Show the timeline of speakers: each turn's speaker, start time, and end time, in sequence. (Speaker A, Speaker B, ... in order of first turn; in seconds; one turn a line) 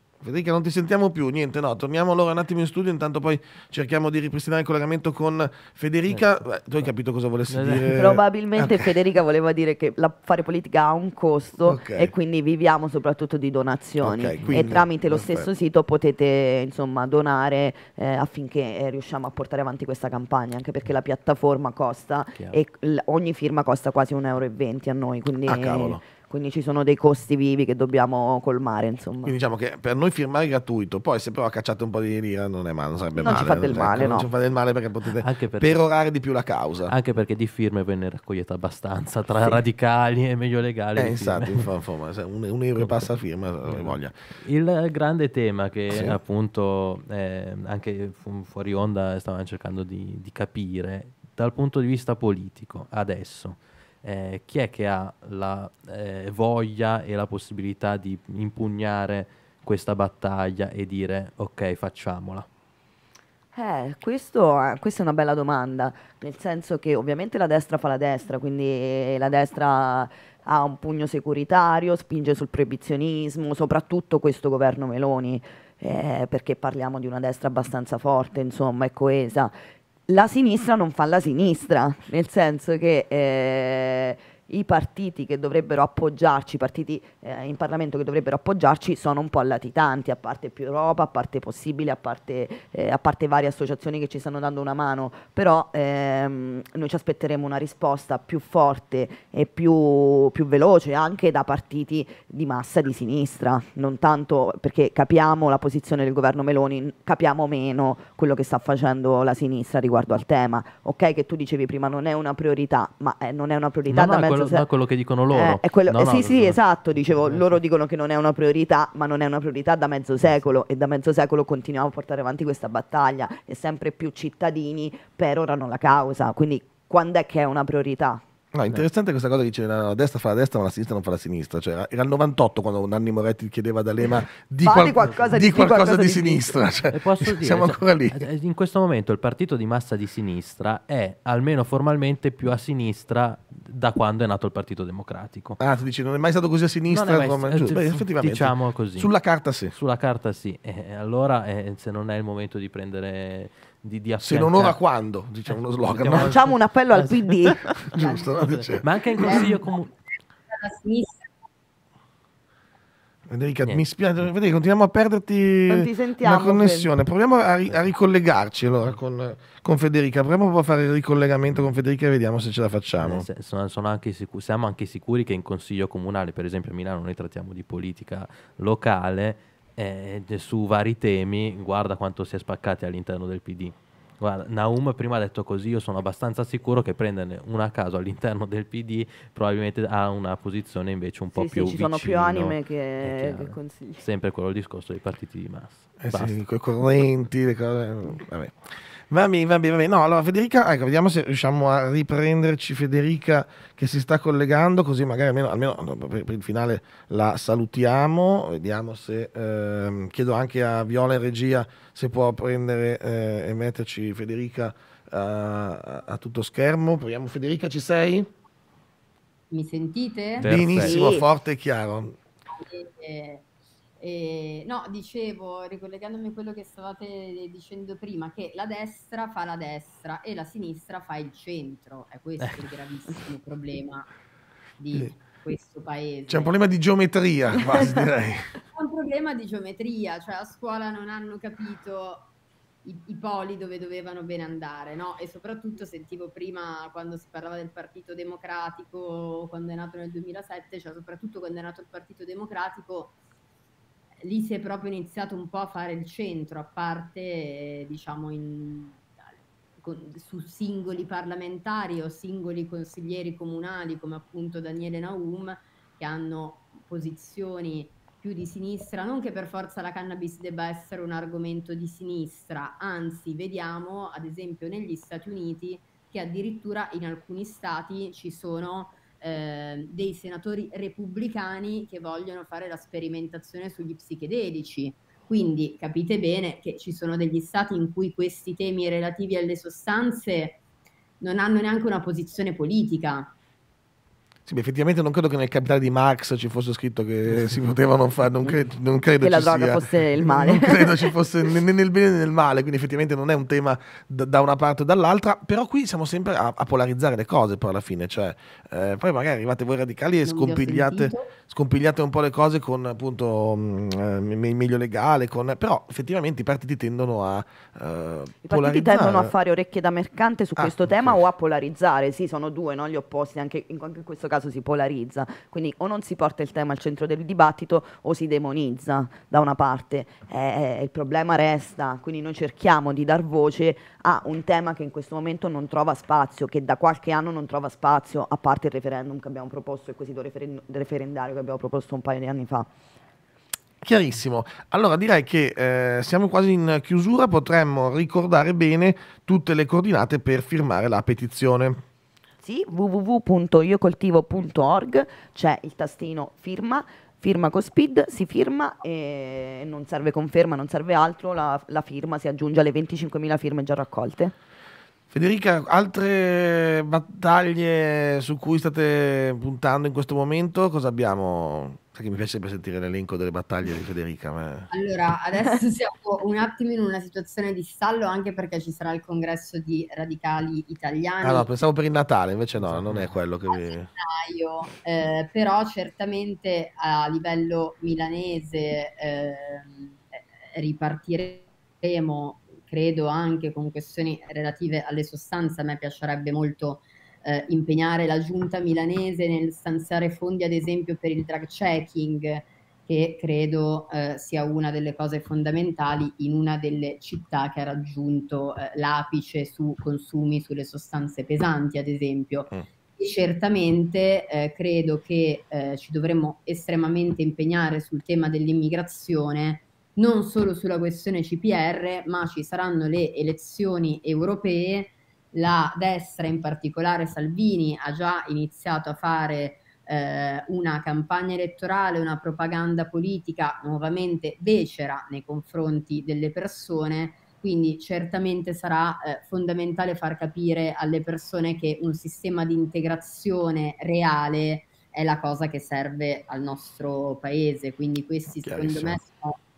Speaker A: 0.2-8.9
Speaker B: 7.5-8.0
Speaker C: 7.9-29.4
Speaker A: 11.6-12.1
Speaker A: 14.0-15.5
Speaker A: 25.4-26.0
Speaker A: 29.2-36.9
Speaker C: 33.1-34.3
Speaker B: 35.0-35.8
Speaker B: 36.9-41.7
Speaker A: 41.0-44.1
Speaker B: 42.8-43.1
Speaker B: 43.6-62.5
Speaker A: 45.9-46.2
Speaker C: 63.5-79.5
Speaker C: 80.1-114.7
Speaker B: 113.9-117.6
Speaker C: 115.3-128.2
Speaker A: 128.5-138.2
Speaker C: 134.6-136.6
Speaker B: 136.9-145.6
Speaker A: 145.6-149.7
Speaker B: 146.9-149.1
Speaker B: 149.7-154.8
Speaker A: 154.2-156.4
Speaker B: 155.5-159.9
Speaker C: 156.1-157.7
Speaker A: 157.9-159.5
Speaker D: 158.0-158.3
Speaker D: 159.2-159.7
Speaker D: 160.5-161.3
Speaker A: 163.3-173.2
Speaker C: 165.7-166.9
Speaker B: 173.0-196.4
Speaker C: 191.3-194.0
Speaker A: 196.0-198.5
Speaker A: 199.1-218.3
Speaker D: 219.5-220.5
Speaker B: 220.4-221.0
Speaker A: 220.4-222.2
Speaker C: 220.8-221.3
Speaker D: 222.5-223.4
Speaker D: 224.0-234.1
Speaker D: 234.8-236.5
Speaker A: 236.3-238.6
Speaker D: 237.8-238.0
Speaker D: 238.7-242.3
Speaker D: 242.8-253.1
Speaker D: 254.2-259.1
Speaker D: 259.8-290.6
Speaker D: 291.2-293.3
Speaker A: 294.4-319.3
Speaker C: 299.2-301.1
Speaker D: 310.2-311.3
Speaker C: 318.4-342.7
Speaker A: 320.6-321.2
Speaker A: 343.8-351.8
Speaker C: 352.4-364.3
Speaker A: 365.1-374.7
Speaker D: 374.7-381.5
Speaker A: 381.2-383.9
Speaker B: 382.7-383.1
Speaker D: 383.5-449.4
Speaker A: 448.3-449.0